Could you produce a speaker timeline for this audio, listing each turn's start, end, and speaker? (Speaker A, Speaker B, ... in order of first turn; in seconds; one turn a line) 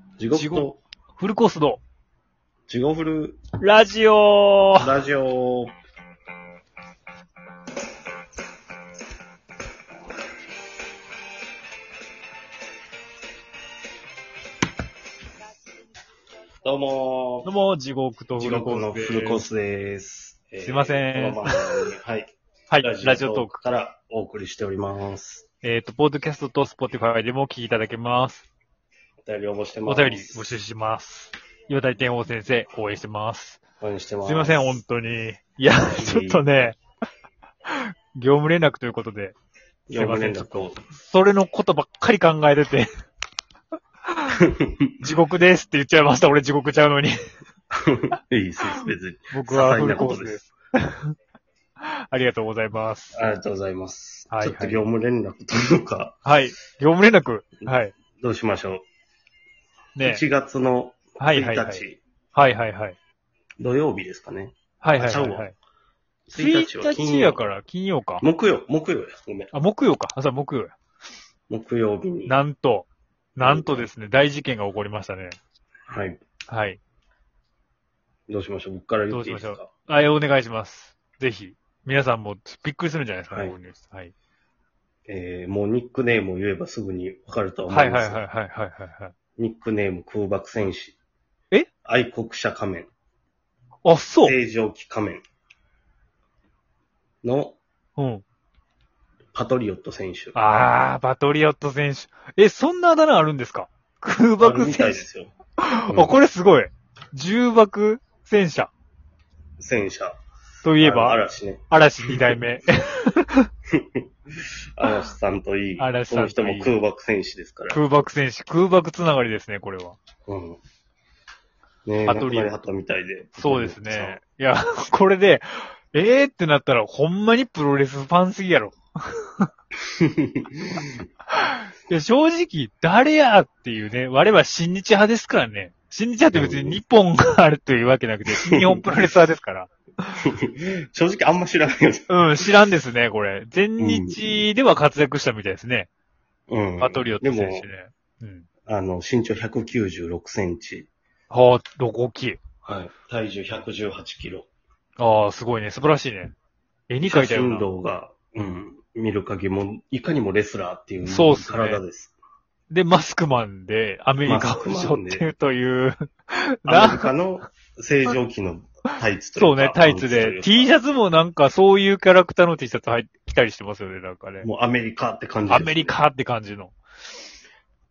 Speaker A: 0.2-0.8
Speaker B: 0.3-1.8
Speaker A: 2.7-3.4
Speaker B: 3.6-4.9
Speaker A: 4.8-5.7
Speaker A: 16.6-17.5
Speaker B: 17.4-19.4
Speaker A: 18.4-25.4
Speaker B: 20.6-21.6
Speaker B: 22.7-23.6
Speaker B: 25.6-28.5
Speaker A: 29.2-30.4
Speaker B: 29.9-33.6
Speaker A: 33.8-34.8
Speaker B: 34.2-36.8
Speaker A: 35.9-36.7
Speaker B: 37.7-39.4
Speaker A: 39.9-40.8
Speaker B: 39.9-42.9
Speaker A: 44.4-44.9
Speaker B: 45.0-47.1
Speaker A: 47.7-50.5
Speaker B: 48.8-51.1
Speaker B: 51.8-53.2
Speaker A: 53.1-56.2
Speaker B: 54.3-54.8
Speaker B: 56.2-58.0
Speaker A: 57.6-58.8
Speaker B: 60.0-60.2
Speaker A: 60.0-62.0
Speaker B: 61.2-63.0
Speaker A: 63.6-65.5
Speaker B: 64.8-65.5
Speaker B: 66.3-68.3
Speaker A: 66.3-67.4
Speaker A: 68.2-69.5
Speaker B: 69.5-70.7
Speaker A: 71.5-72.4
Speaker B: 72.3-75.4
Speaker A: 73.4-73.9
Speaker A: 75.9-76.2
Speaker B: 76.5-76.8
Speaker A: 78.3-79.7
Speaker B: 79.1-84.1
Speaker A: 85.1-88.2
Speaker B: 87.7-89.1
Speaker A: 89.4-91.0
Speaker A: 91.8-92.9
Speaker B: 93.8-94.4
Speaker A: 94.2-95.2
Speaker A: 97.2-97.6
Speaker B: 98.0-98.2
Speaker A: 99.3-100.7
Speaker B: 100.3-105.0
Speaker A: 104.4-105.3
Speaker B: 105.6-108.7
Speaker A: 109.6-110.2
Speaker B: 110.6-113.5
Speaker A: 110.8-112.4
Speaker A: 113.7-114.0
Speaker A: 114.8-117.8
Speaker B: 115.8-116.8
Speaker B: 117.7-120.0
Speaker A: 120.3-120.6
Speaker A: 121.8-124.2
Speaker B: 122.1-122.5
Speaker B: 123.4-129.5
Speaker A: 130.0-131.0
Speaker B: 131.3-140.1
Speaker A: 136.3-136.8
Speaker A: 138.3-138.8
Speaker A: 140.2-142.5
Speaker B: 142.1-145.9
Speaker A: 143.8-144.4
Speaker A: 146.5-147.7
Speaker B: 146.8-148.5
Speaker A: 148.7-150.9
Speaker B: 151.3-152.4
Speaker A: 152.6-154.5
Speaker B: 155.0-156.3
Speaker B: 156.9-157.7
Speaker A: 157.0-162.2
Speaker B: 161.1-161.8
Speaker B: 162.7-167.1
Speaker A: 164.2-165.3
Speaker A: 166.7-170.7
Speaker B: 169.4-174.5
Speaker A: 174.4-176.0
Speaker B: 175.5-176.8